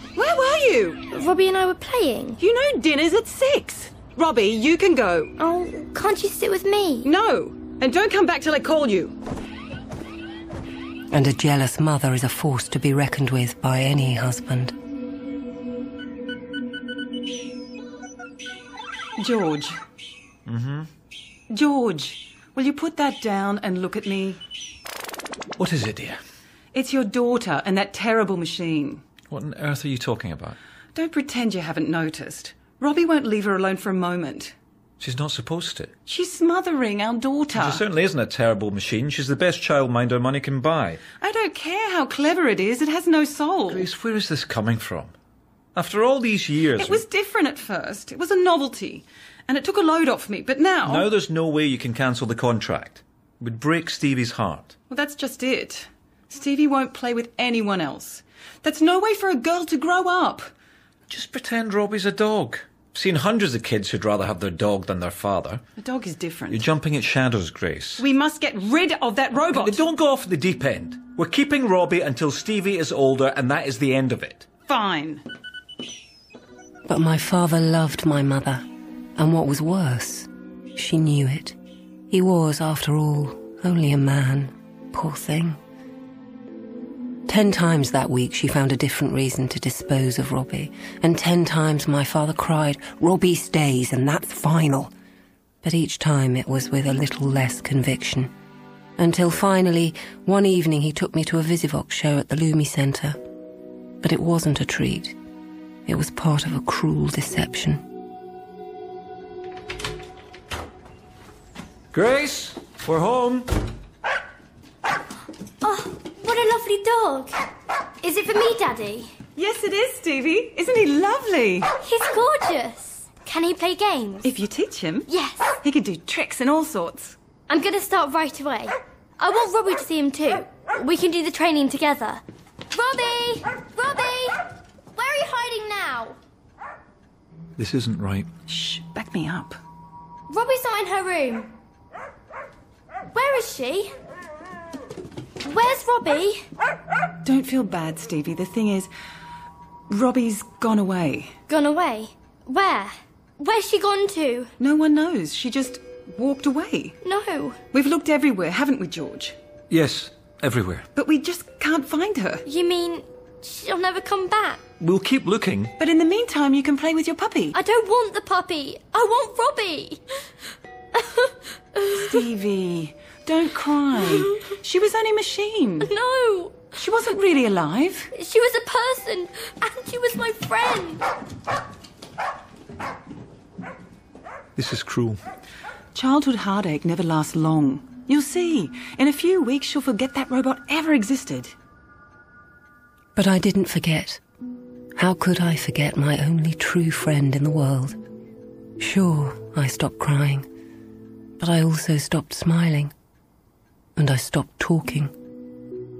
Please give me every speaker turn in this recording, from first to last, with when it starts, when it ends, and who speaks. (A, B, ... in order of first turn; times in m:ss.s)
0:00.2-0:01.0 A
0:01.1-0:02.4 B
0:02.4-0:05.3 A
0:05.4-0:07.1 B
0:07.0-0:09.1 A
0:11.1-0:14.7 C
0:19.2-0:19.8 A
0:20.5-0:20.9 D
0:21.5-0:24.4 A
0:25.6-0:26.2 D
0:26.7-0:29.0 A
0:29.3-0:30.6 D
0:31.0-0:34.5 A
0:35.0-0:35.9 D
0:36.1-0:37.8 A
0:37.5-0:41.0 D
0:41.2-0:43.9 A
0:43.7-0:45.1 D
0:45.8-0:47.0 D
0:46.8-0:51.1 A
0:50.8-0:54.7 D
0:54.9-1:00.5 A
1:01.1-1:05.6 D
1:05.8-1:06.7 A
1:06.5-1:08.1 D
1:08.0-1:09.8 A
1:09.4-1:14.5 D
1:14.7-1:15.2 A
1:16.9-1:18.6 C
1:19.2-1:21.6 C
1:22.1-1:25.6 C
1:27.3-1:34.9 C
1:35.6-1:38.3 C
1:39.0-1:43.2 C
1:44.0-1:45.2 C
1:45.9-1:47.8 C
1:51.9-1:53.5 D
1:55.6-1:57.3 B
1:58.0-1:59.1 B
1:59.4-2:01.7 A
2:01.8-2:04.3 B
2:04.2-2:05.1 A
2:05.1-2:05.6 B
2:05.6-2:07.2 A
2:07.5-2:14.4 B
2:14.9-2:16.2 B
2:17.6-2:18.3 D
2:18.5-2:19.6 A
2:20.3-2:21.5 B
2:23.1-2:23.9 B
2:25.4-2:26.4 B
2:27.2-2:28.9 A
2:29.9-2:31.4 A
2:31.5-2:34.5 B
2:34.6-2:37.0 A
2:37.0-2:37.6 B
2:37.7-2:39.4 A
2:39.7-2:40.8 D
2:41.0-2:42.4 A
2:42.4-2:44.6 B
2:44.8-2:45.7 D
2:45.8-2:47.6 A
2:47.5-2:50.0 B
2:51.0-2:52.2 B
2:52.0-2:55.9 A
2:55.8-2:56.7 B
2:56.8-2:58.1 A
2:58.1-3:01.0 B
3:04.6-3:05.2 D
3:05.9-3:11.5 A
3:13.2-3:14.2 C
3:15.0-3:18.0 C
3:18.8-3:20.5 C
3:21.4-3:22.9 C
3:24.0-3:25.1 C